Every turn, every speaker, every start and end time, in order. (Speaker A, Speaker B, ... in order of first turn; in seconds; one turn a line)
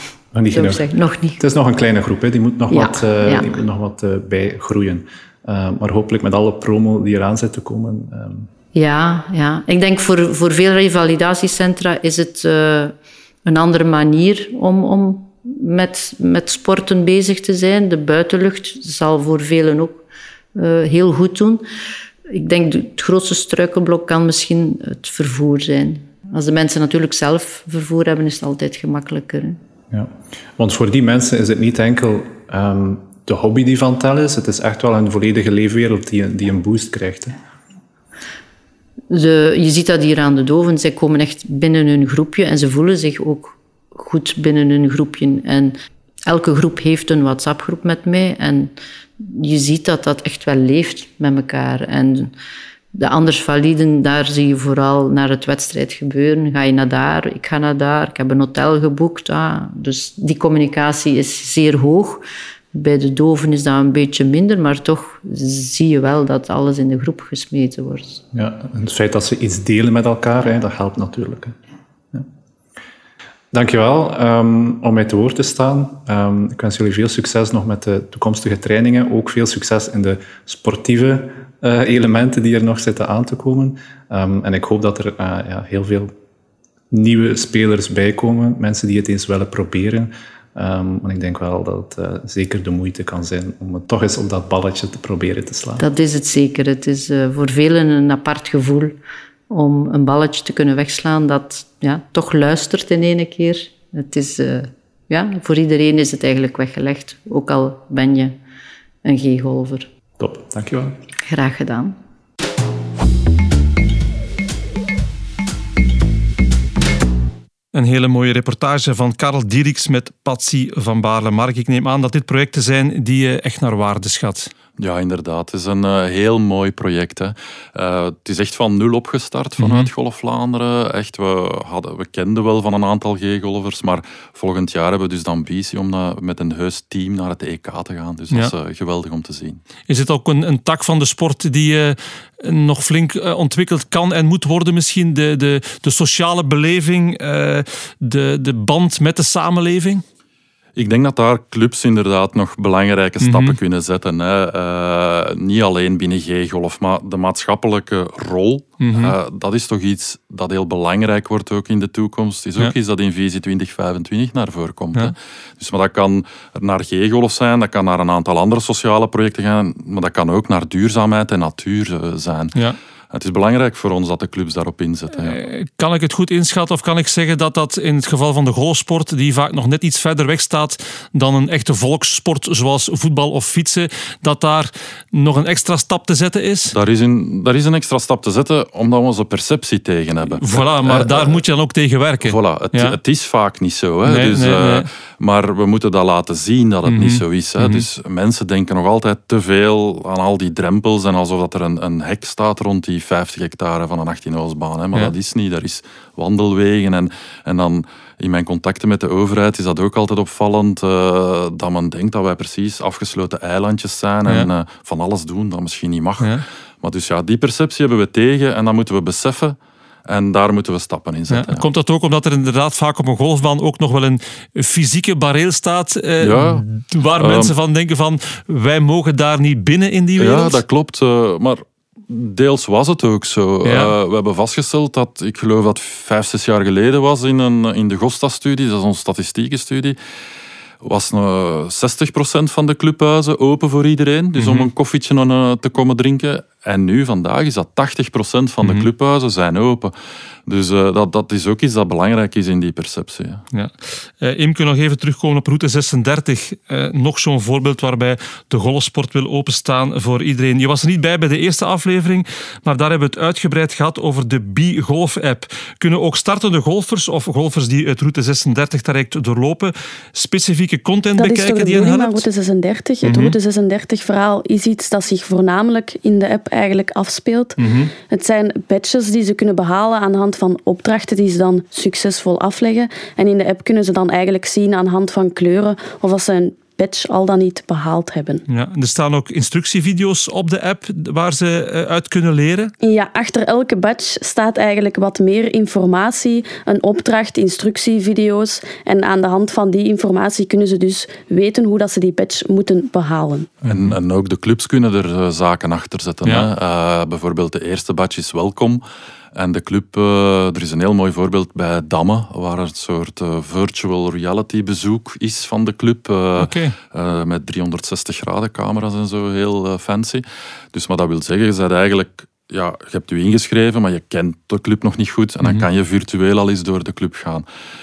Speaker A: 0.3-0.9
Speaker B: 0.5-1.4
Speaker A: 1.4-8.5
Speaker B: 2.7-3.5
Speaker B: 8.7-20.0
Speaker B: 20.5-21.6
Speaker B: 22.3-29.6
Speaker A: 29.9-37.4
Speaker B: 39.1-52.3
Speaker B: 52.9-68.2
Speaker A: 68.3-71.5
Speaker A: 73.5-86.1
Speaker A: 86.9-95.8
Speaker B: 95.8-99.0
Speaker B: 99.5-108.4
Speaker B: 109.0-109.9
Speaker A: 110.2-111.0
Speaker B: 111.3-112.0
Speaker C: 117.7-124.5
Speaker D: 124.8-139.6
Speaker C: 129.6-129.9
Speaker C: 139.9-150.0
Speaker D: 150.8-172.6
Speaker C: 153.2-153.6
Speaker C: 158.8-159.2
Speaker D: 173.1-175.4
Speaker C: 175.2-186.8
Speaker D: 186.7-191.4
Speaker C: 190.3-193.0
Speaker D: 192.2-221.7
Speaker C: 194.1-194.9
Speaker C: 196.9-197.8
Speaker C: 221.3-230.6
Speaker D: 226.2-227.5
Speaker D: 230.2-240.0
Speaker C: 233.6-233.9
Speaker D: 240.8-249.9
Speaker C: 244.4-244.7
Speaker C: 248.6-248.9
Speaker D: 250.5-253.4
Speaker C: 253.5-272.3
Speaker E: 271.2-288.4
Speaker C: 273.0-273.4
Speaker C: 277.6-277.9
Speaker C: 288.5-292.7
Speaker E: 292.8-303.5
Speaker D: 303.6-308.8
Speaker C: 303.7-303.9
Speaker D: 309.4-327.5
Speaker C: 316.4-316.8